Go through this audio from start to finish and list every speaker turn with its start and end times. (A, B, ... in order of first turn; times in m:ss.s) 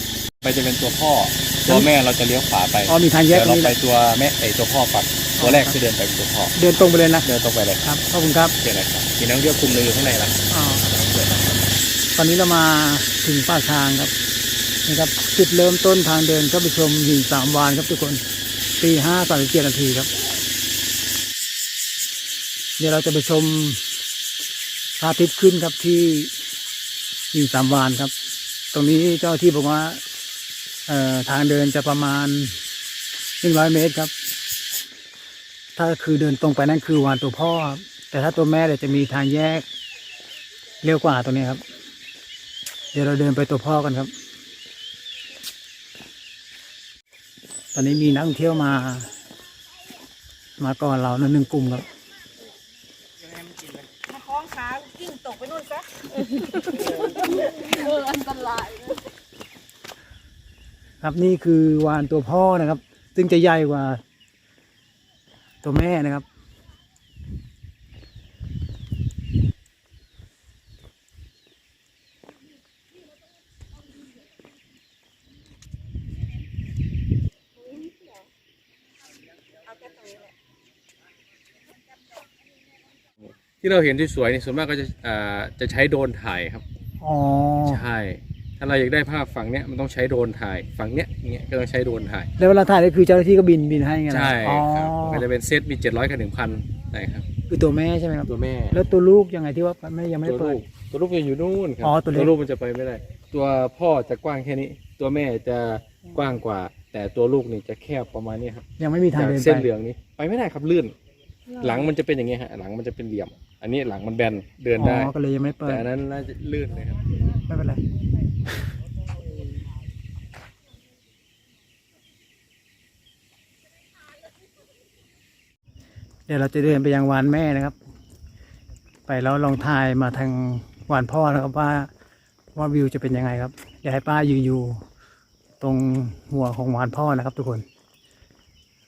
0:00.4-0:06.6 A
0:02.9-0:03.8 B
0:05.4-0:05.8 B
0:06.6-0:07.3 B
0:07.2-0:08.0 A
0:07.8-0:08.6 B
0:08.6-0:11.7 A
0:10.5-0:10.8 B
0:12.2-0:14.1 B
0:14.8-0:18.2 B
0:18.8-0:20.1 B
0:22.8-0:23.8 B
0:25.0-0:26.3 B
0:27.3-0:28.1 B
0:28.7-0:30.0 B
0:30.9-0:32.6 B
0:33.4-0:34.1 B
0:35.8-0:39.6 B
0:40.8-0:41.6 B
0:42.9-0:44.1 B
0:47.7-0:49.1 B
0:50.6-0:51.9 B
0:53.5-0:58.9 C
1:01.0-1:04.0 B
1:05.6-1:06.2 B
1:23.2-1:26.6 A
1:27.0-1:27.8 B
1:27.6-1:32.3 A
1:32.4-1:35.3 B
1:34.1-1:37.2 A
1:37.5-1:40.6 B
1:38.2-1:38.8 A
1:40.2-1:50.9 A
1:41.8-1:42.3 B
1:48.8-1:49.7 B
1:51.6-1:55.1 A
1:51.6-1:51.8 C
1:54.8-1:55.9 B
1:55.6-1:57.1 A
1:57.5-1:57.8 B
2:06.3-2:07.8 B
2:09.1-2:11.9 B
2:12.5-2:14.8 B
2:15.6-2:17.6 B